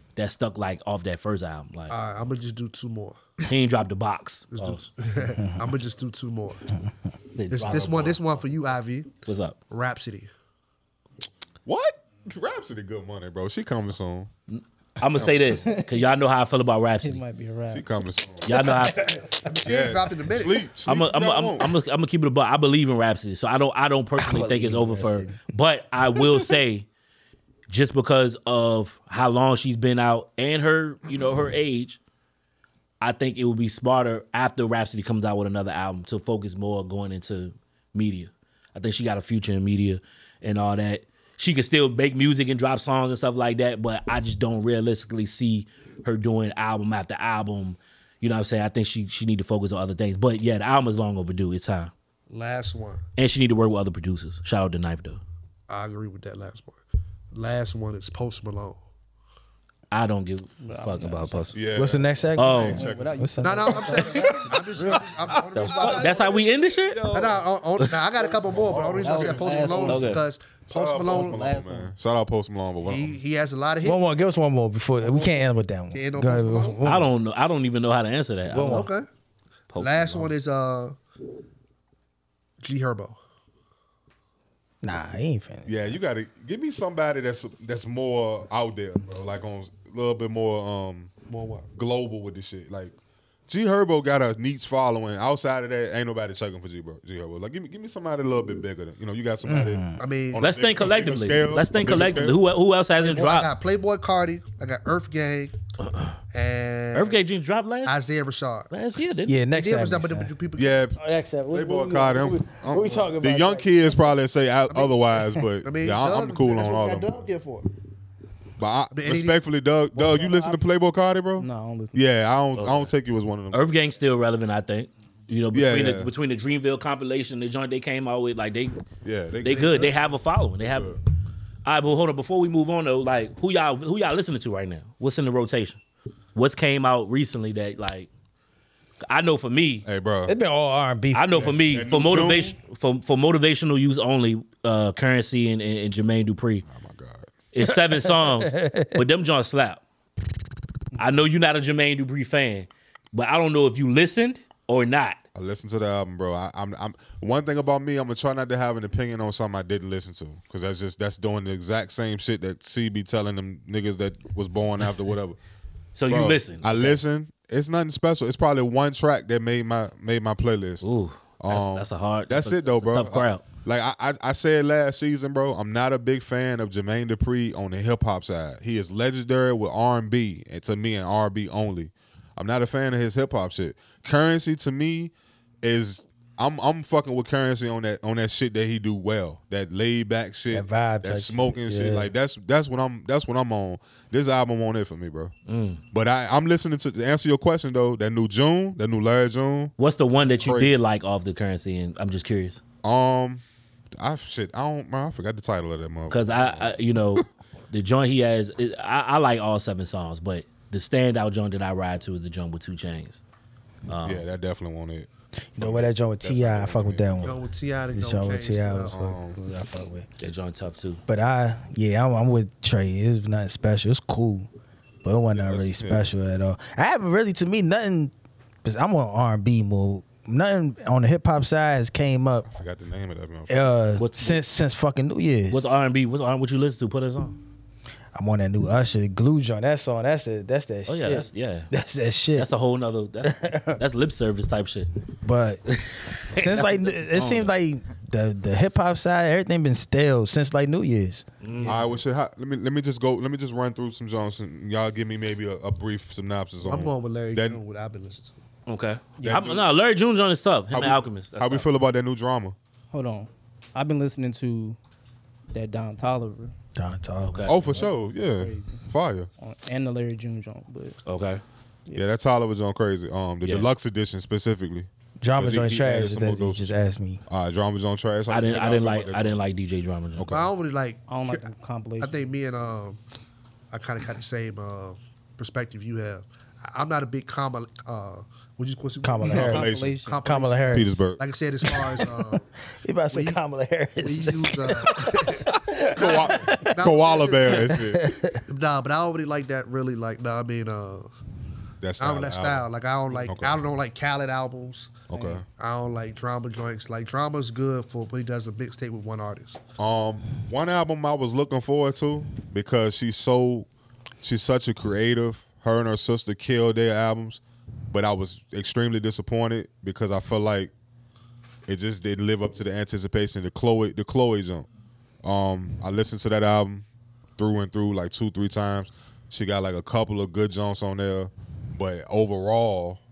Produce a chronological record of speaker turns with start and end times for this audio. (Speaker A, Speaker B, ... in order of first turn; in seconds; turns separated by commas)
Speaker A: 0.2-2.0, Speaker B: 1.9-3.2, Speaker A: 3.5-4.8, Speaker B: 4.5-6.7, Speaker C: 5.4-5.7, Speaker A: 7.3-8.4, Speaker B: 7.5-9.1, Speaker A: 9.2-9.6, Speaker B: 9.7-10.3, Speaker D: 11.7-14.3, Speaker A: 14.5-17.2, Speaker D: 15.2-15.6, Speaker E: 17.0-17.9, Speaker D: 17.7-18.6, Speaker A: 18.4-19.2, Speaker B: 19.0-20.7, Speaker E: 19.1-19.5, Speaker D: 19.6-21.8, Speaker A: 20.9-26.9, Speaker C: 24.2-25.4, Speaker A: 27.7-32.0, Speaker A: 33.0-51.9, Speaker B: 52.3-53.0, Speaker A: 53.2-55.2, Speaker B: 55.7-56.8, Speaker B: 57.3-58.8, Speaker A: 59.9-61.6, Speaker E: 60.6-61.6, Speaker D: 61.5-63.2, Speaker C: 61.8-63.9, Speaker A: 62.4-62.9, Speaker E: 62.6-65.1, Speaker B: 63.4-66.3, Speaker D: 63.9-67.4, Speaker A: 65.5-67.1, Speaker B: 67.1-71.4, Speaker D: 68.2-69.9, Speaker E: 68.9-70.2, Speaker A: 69.8-70.2, Speaker D: 70.7-73.2, Speaker E: 71.1-71.9, Speaker B: 72.8-74.0, Speaker C: 73.8-77.1, Speaker B: 75.1-75.4, Speaker B: 75.9-76.8, Speaker A: 76.8-78.9, Speaker C: 78.5-78.9, Speaker B: 78.7-79.1, Speaker A: 79.7-80.3, Speaker B: 79.8-81.0, Speaker B: 82.6-83.2, Speaker C: 84.8-86.0, Speaker D: 85.7-91.1, Speaker B: 91.3-91.7, Speaker D: 91.8-92.9, Speaker D: 93.5-102.4, Speaker C: 99.4-100.0, Speaker B: 100.0-100.5, Speaker A: 100.4-103.5, Speaker B: 103.0-105.6, Speaker A: 105.8-106.2, Speaker B: 106.3-107.2, Speaker A: 106.9-108.0, Speaker B: 107.8-108.7, Speaker A: 108.7-109.4, Speaker C: 109.3-110.3, Speaker B: 109.5-110.8, Speaker D: 110.6-111.0, Speaker C: 111.0-114.0, Speaker D: 111.5-117.1, Speaker B: 114.7-115.0, Speaker B: 115.6-117.7, Speaker D: 118.6-123.7, Speaker B: 118.9-119.4, Speaker E: 119.9-120.6, Speaker E: 121.4-122.0, Speaker A: 122.5-122.9, Speaker A: 123.5-128.8, Speaker D: 125.5-126.1, Speaker D: 129.0-129.9, Speaker A: 129.4-131.0, Speaker D: 130.7-131.0, Speaker A: 131.7-135.8, Speaker A: 136.3-138.1, Speaker A: 139.1-139.9, Speaker D: 139.9-140.3, Speaker C: 140.3-141.8, Speaker A: 141.1-146.7, Speaker D: 141.4-142.6, Speaker D: 146.7-147.3, Speaker A: 147.5-149.8, Speaker C: 147.6-149.0, Speaker A: 151.0-155.2, Speaker D: 155.3-165.4, Speaker A: 165.9-167.0, Speaker D: 166.1-170.8, Speaker A: 170.8-173.5, Speaker D: 171.4-195.3, Speaker C: 190.5-192.1, Speaker A: 195.5-195.8, Speaker D: 195.9-199.7, Speaker A: 199.8-202.6, Speaker D: 200.4-200.7, Speaker D: 202.8-203.4, Speaker D: 204.0-207.3, Speaker A: 206.1-213.2, Speaker A: 213.9-214.2, Speaker D: 214.1-215.1, Speaker C: 215.5-217.4, Speaker D: 215.6-217.4, Speaker B: 217.2-219.0, Speaker C: 217.9-220.1, Speaker D: 218.9-219.4, Speaker A: 220.2-221.0, Speaker C: 221.1-224.5, Speaker C: 225.0-228.1, Speaker D: 225.3-226.1, Speaker C: 228.6-232.5, Speaker D: 232.5-233.7, Speaker C: 233.5-235.6, Speaker A: 234.0-234.4, Speaker A: 235.5-237.4, Speaker C: 238.1-242.5, Speaker A: 240.9-241.7, Speaker A: 242.4-244.9, Speaker C: 243.2-243.8, Speaker C: 245.2-245.6, Speaker A: 245.7-247.5, Speaker C: 246.2-251.3, Speaker A: 251.4-251.8, Speaker E: 251.6-251.8, Speaker D: 251.7-257.6, Speaker B: 256.6-258.3, Speaker A: 258.7-261.7, Speaker E: 259.2-259.4, Speaker D: 259.2-259.7, Speaker D: 260.7-262.6, Speaker E: 262.9-264.8, Speaker E: 265.5-266.5, Speaker C: 266.8-267.7, Speaker A: 267.2-267.6, Speaker D: 267.5-269.3, Speaker E: 267.7-268.9, Speaker E: 269.4-271.0, Speaker A: 271.1-271.4, Speaker D: 271.9-276.7, Speaker A: 273.4-273.7, Speaker C: 275.2-277.2, Speaker D: 277.3-279.4, Speaker A: 278.3-280.3, Speaker D: 280.2-280.5, Speaker B: 280.3-281.5, Speaker E: 281.1-282.2, Speaker B: 282.0-283.0, Speaker B: 283.7-292.5, Speaker C: 289.0-289.7, Speaker E: 289.3-290.2, Speaker D: 289.3-290.0, Speaker C: 290.2-290.9, Speaker D: 290.7-291.2, Speaker C: 291.6-296.8, Speaker B: 293.1-293.4, Speaker B: 294.0-297.8, Speaker D: 295.8-298.1, Speaker C: 297.5-298.4, Speaker B: 298.5-301.1, Speaker D: 301.8-302.7, Speaker B: 302.0-305.1, Speaker D: 303.2-303.6, Speaker E: 305.1-305.4, Speaker D: 305.1-305.4, Speaker B: 305.6-309.6, Speaker D: 309.8-313.7, Speaker D: 314.2-320.7, Speaker D: 321.7-324.7, Speaker D: 325.2-326.9, Speaker D: 327.4-333.0